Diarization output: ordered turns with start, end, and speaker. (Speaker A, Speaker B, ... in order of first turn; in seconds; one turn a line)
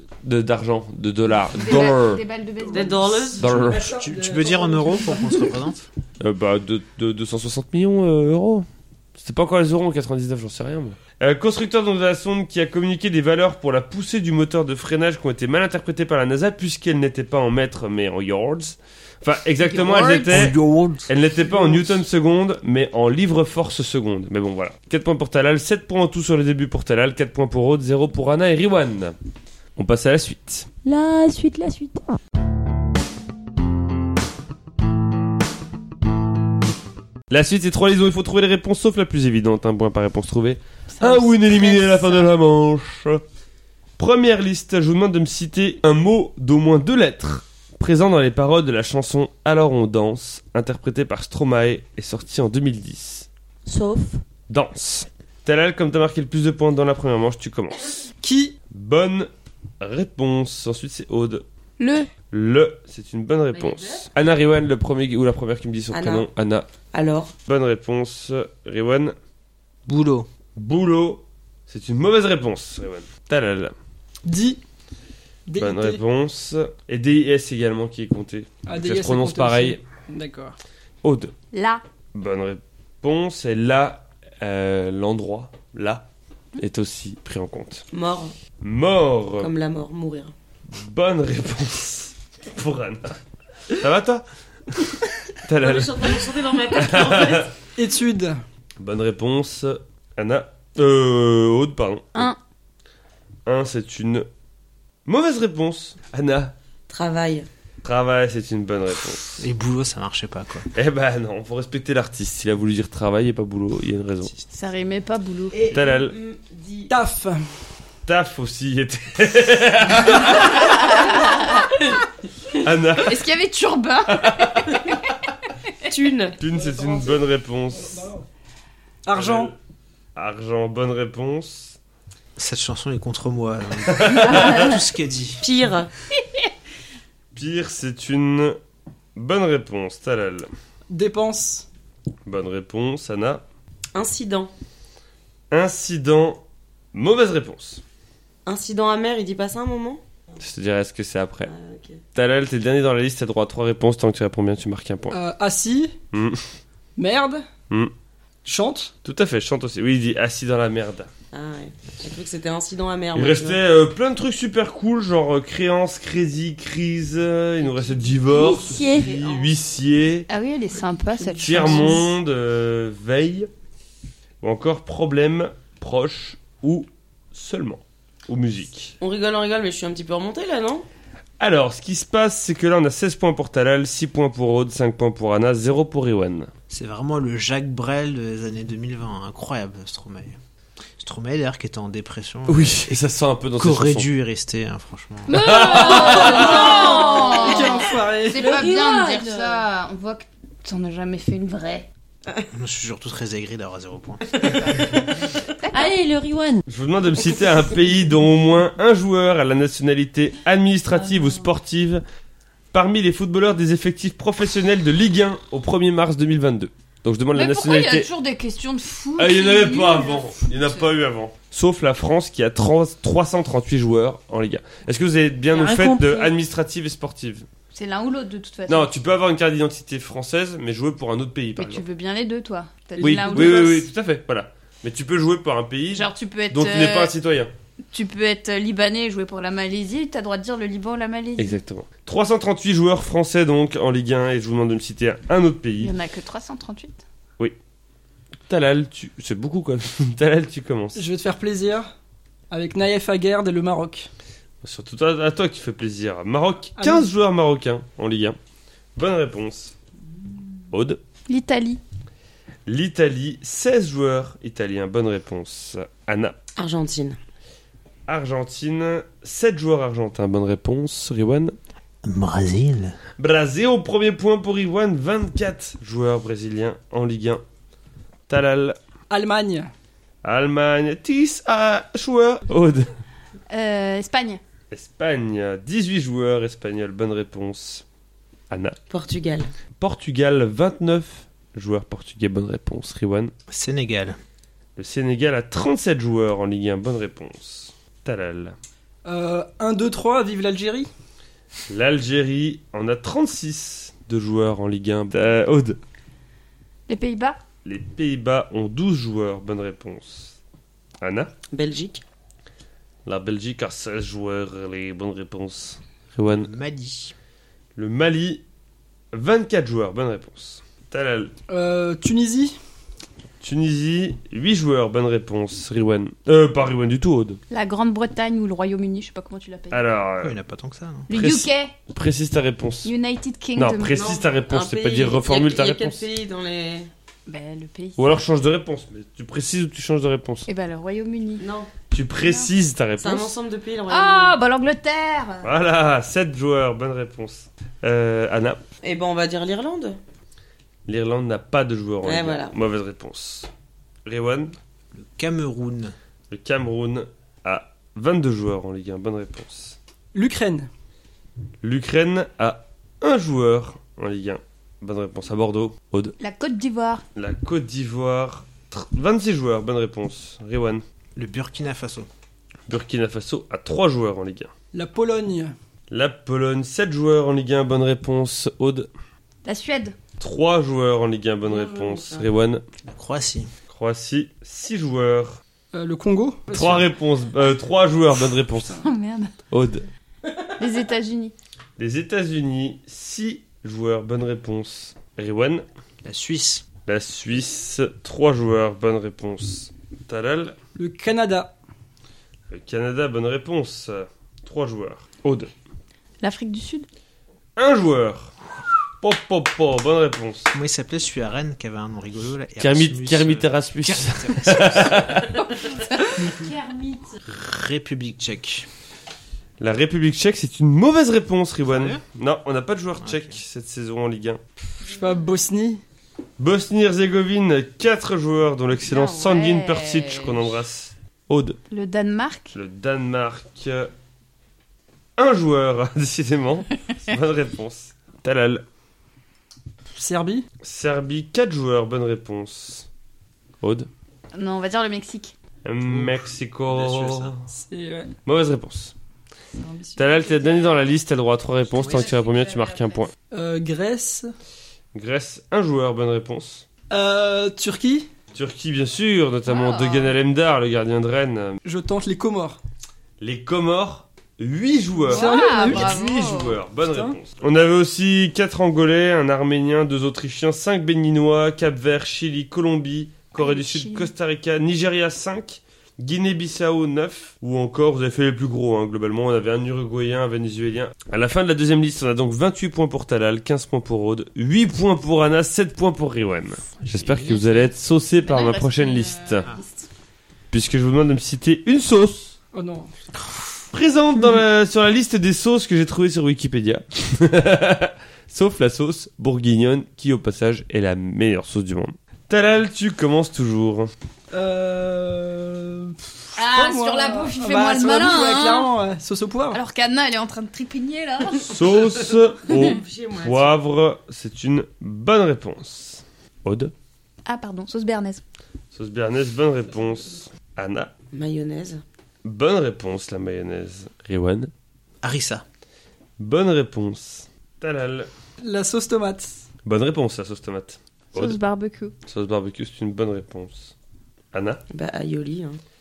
Speaker A: 0.2-2.2
Speaker B: 1.4-3.4
Speaker C: 2.7-3.5
Speaker D: 3.2-5.6
Speaker A: 3.4-3.8
Speaker E: 3.7-5.9
Speaker A: 6.2-29.1
Speaker C: 19.9-20.2
Speaker E: 20.3-21.1
Speaker A: 29.8-30.7
Speaker F: 30.8-32.1
Speaker A: 37.3-43.2
Speaker B: 40.9-42.3
Speaker A: 44.0-53.3
Speaker F: 53.6-54.2
Speaker A: 54.5-57.8
Speaker D: 58.2-58.5
Speaker A: 58.7-59.3
Speaker A: 59.8-61.4
Speaker B: 61.8-62.1
Speaker A: 62.3-66.7
Speaker C: 65.9-66.3
Speaker C: 66.9-67.3
Speaker A: 67.5-69.1
Speaker E: 69.8-70.3
Speaker A: 70.5-73.7
Speaker D: 74.2-74.6
Speaker D: 75.5-76.0
Speaker A: 75.6-79.8
Speaker D: 78.7-80.5
Speaker A: 81.0-81.3
Speaker B: 81.5-81.8
Speaker A: 82.1-86.0
Speaker A: 86.6-87.8
Speaker C: 87.9-88.3
Speaker A: 88.6-89.5
Speaker C: 89.4-90.3
Speaker A: 90.7-93.2
Speaker A: 93.7-94.2
Speaker A: 95.4-96.2
Speaker C: 95.6-97.5
Speaker A: 96.7-97.5
Speaker D: 97.8-98.4
Speaker A: 98.8-102.3
Speaker A: 103.5-104.3
Speaker A: 105.0-106.5
Speaker C: 106.9-107.5
Speaker A: 107.8-109.4
Speaker E: 109.4-110.7
Speaker A: 110.7-114.3
Speaker B: 114.5-115.6
Speaker C: 115.5-116.9
Speaker A: 115.7-116.1
Speaker D: 116.9-117.5
Speaker A: 118.0-120.9
Speaker B: 120.6-121.8
Speaker A: 122.5-123.2
Speaker B: 123.0-125.0
Speaker A: 124.1-124.8
Speaker C: 125.9-126.4
Speaker A: 126.4-128.0
Speaker D: 126.4-128.2
Speaker D: 129.0-129.5
Speaker A: 129.1-129.5
Speaker A: 130.1-131.8
Speaker E: 132.4-135.4
Speaker A: 133.9-134.7
Speaker C: 135.4-135.9
Speaker A: 137.3-138.6
Speaker A: 139.2-140.5
Speaker D: 140.9-141.7
Speaker A: 142.2-143.4
Speaker C: 143.9-144.5
Speaker A: 145.5-146.4
Speaker A: 146.9-147.8
Speaker C: 148.4-150.0
Speaker A: 150.4-151.5
Speaker C: 151.4-152.0
Speaker A: 152.1-155.2
Speaker D: 155.1-155.9
Speaker A: 156.1-156.4
Speaker D: 157.0-157.4
Speaker D: 158.4-158.9
Speaker A: 159.0-161.1
Speaker C: 161.3-163.6
Speaker A: 163.1-170.3
Speaker C: 167.7-169.5
Speaker F: 168.3-169.2
Speaker B: 170.3-172.1
Speaker C: 171.3-171.7
Speaker A: 171.4-173.5
Speaker A: 174.4-178.9
Speaker C: 179.0-180.8
Speaker A: 181.4-186.5
Speaker E: 186.7-190.4
Speaker E: 191.0-193.0
Speaker A: 192.5-194.1
Speaker E: 193.6-195.6
Speaker B: 195.3-201.9
Speaker A: 195.3-196.8
Speaker D: 195.9-198.5
Speaker C: 196.5-197.3
Speaker F: 196.7-197.7
Speaker F: 198.4-199.6
Speaker E: 202.5-205.0
Speaker F: 205.7-206.6
Speaker A: 206.7-212.0
Speaker A: 212.7-218.1
Speaker B: 217.3-220.9
Speaker A: 219.2-227.4
Speaker F: 225.5-226.3
Speaker B: 227.7-228.9
Speaker A: 228.7-231.8
Speaker B: 231.6-233.8
Speaker D: 232.9-233.8
Speaker A: 233.0-237.5
Speaker B: 235.9-237.1
Speaker B: 237.9-241.6
Speaker A: 241.4-245.9
Speaker B: 245.8-247.0
Speaker A: 248.5-251.0
Speaker D: 250.9-251.9
Speaker D: 252.5-254.1
Speaker A: 254.6-258.4
Speaker D: 256.8-257.1
Speaker A: 258.9-259.7
Speaker A: 260.7-261.0
Speaker B: 261.3-261.8
Speaker A: 262.7-266.4
Speaker C: 266.6-267.2
Speaker A: 268.1-271.5
Speaker E: 272.0-273.0
Speaker A: 273.2-277.4
Speaker A: 278.3-278.8
Speaker D: 279.1-279.7
Speaker A: 280.2-282.9
Speaker B: 283.5-284.4
Speaker A: 284.7-287.8
Speaker A: 288.5-288.8
Speaker C: 288.9-289.5
Speaker A: 289.8-293.3
Speaker E: 293.5-294.2
Speaker A: 294.8-298.6
Speaker D: 299.0-300.9
Speaker A: 301.7-305.8
Speaker B: 306.9-307.4
Speaker A: 307.6-310.4
Speaker A: 311.0-311.3
Speaker C: 311.5-312.0
Speaker A: 313.1-316.5
Speaker E: 316.3-317.1
Speaker A: 317.8-318.4
Speaker A: 319.1-321.3
Speaker D: 321.5-322.6
Speaker A: 323.4-327.4
Speaker B: 327.5-329.8
Speaker A: 329.7-330.4
Speaker E: 330.2-331.1
Speaker B: 331.1-331.7
Speaker A: 331.1-332.9
Speaker B: 332.8-334.1
Speaker A: 333.6-336.0
Speaker C: 333.9-336.9
Speaker B: 337.3-338.2
Speaker A: 338.0-340.5
Speaker B: 340.5-341.5
Speaker C: 341.4-341.7
Speaker A: 341.9-343.3
Speaker B: 342.2-342.5
Speaker C: 343.0-344.4
Speaker B: 343.9-345.5
Speaker A: 345.4-348.6
Speaker C: 348.8-350.0
Speaker A: 350.9-353.5
Speaker C: 352.0-352.5
Speaker A: 354.0-354.5
Speaker E: 354.9-355.9
Speaker A: 356.3-359.8
Speaker D: 360.1-360.7
Speaker A: 361.6-366.1
Speaker B: 366.2-367.0
Speaker A: 367.1-370.8
Speaker E: 371.1-372.1
Speaker A: 372.7-374.5
Speaker D: 374.7-375.5
Speaker A: 375.9-378.9
Speaker B: 379.4-379.9
Speaker A: 380.2-382.6
Speaker C: 381.4-382.3
Speaker E: 382.8-383.5
Speaker A: 383.7-385.4
Speaker D: 385.7-386.7
Speaker A: 386.5-388.8
Speaker B: 388.8-389.3
Speaker A: 389.5-389.8
Speaker B: 390.6-391.3
Speaker A: 391.8-395.6
Speaker E: 396.0-396.6
Speaker A: 396.9-400.6
Speaker D: 400.8-401.5
Speaker A: 402.5-405.5
Speaker B: 406.2-406.9
Speaker A: 407.6-408.4
Speaker A: 409.0-410.5
Speaker E: 410.5-415.2
Speaker A: 412.6-415.4
Speaker B: 415.6-416.4
Speaker F: 416.4-417.1
Speaker E: 417.2-418.7
Speaker A: 419.6-424.4
Speaker E: 421.6-422.0
Speaker E: 423.0-423.4
Speaker D: 424.8-425.8
Speaker A: 426.4-431.6
Speaker B: 428.9-430.4
Speaker B: 431.7-432.5
Speaker A: 432.5-433.9
Speaker A: 435.2-438.6
Speaker D: 439.9-440.4
Speaker A: 440.6-442.9
Speaker A: 443.6-443.9
Speaker B: 444.3-445.3
Speaker A: 445.6-447.4
Speaker E: 445.9-447.3
Speaker D: 447.5-448.1
Speaker A: 448.2-448.9
Speaker D: 449.6-450.0
Speaker A: 449.9-453.1
Speaker E: 451.8-452.1
Speaker B: 451.8-453.0
Speaker D: 453.3-454.3
Speaker A: 454.9-456.6
Speaker D: 456.9-458.1
Speaker A: 458.3-461.6
Speaker B: 459.5-460.1
Speaker D: 461.6-462.6
Speaker A: 463.2-489.5
Speaker D: 465.1-466.0
Speaker B: 465.1-466.6
Speaker D: 466.8-467.1
Speaker B: 473.3-474.1
Speaker E: 486.9-487.3
Speaker B: 488.2-489.9
Speaker A: 490.5-492.4
Speaker D: 492.5-492.9
Speaker A: 493.7-503.9
Speaker D: 504.3-509.6
Speaker B: 506.4-508.7
Speaker B: 509.5-511.6
Speaker A: 511.4-516.7
Speaker C: 512.5-513.6
Speaker B: 517.2-518.2
Speaker A: 518.7-520.9
Speaker C: 521.1-521.8
Speaker A: 522.2-524.5
Speaker E: 525.0-525.4
Speaker A: 526.2-528.1
Speaker D: 528.4-529.4
Speaker A: 529.6-531.4
Speaker B: 531.1-531.9
Speaker A: 532.0-533.7
Speaker A: 534.3-534.6
Speaker C: 534.7-535.6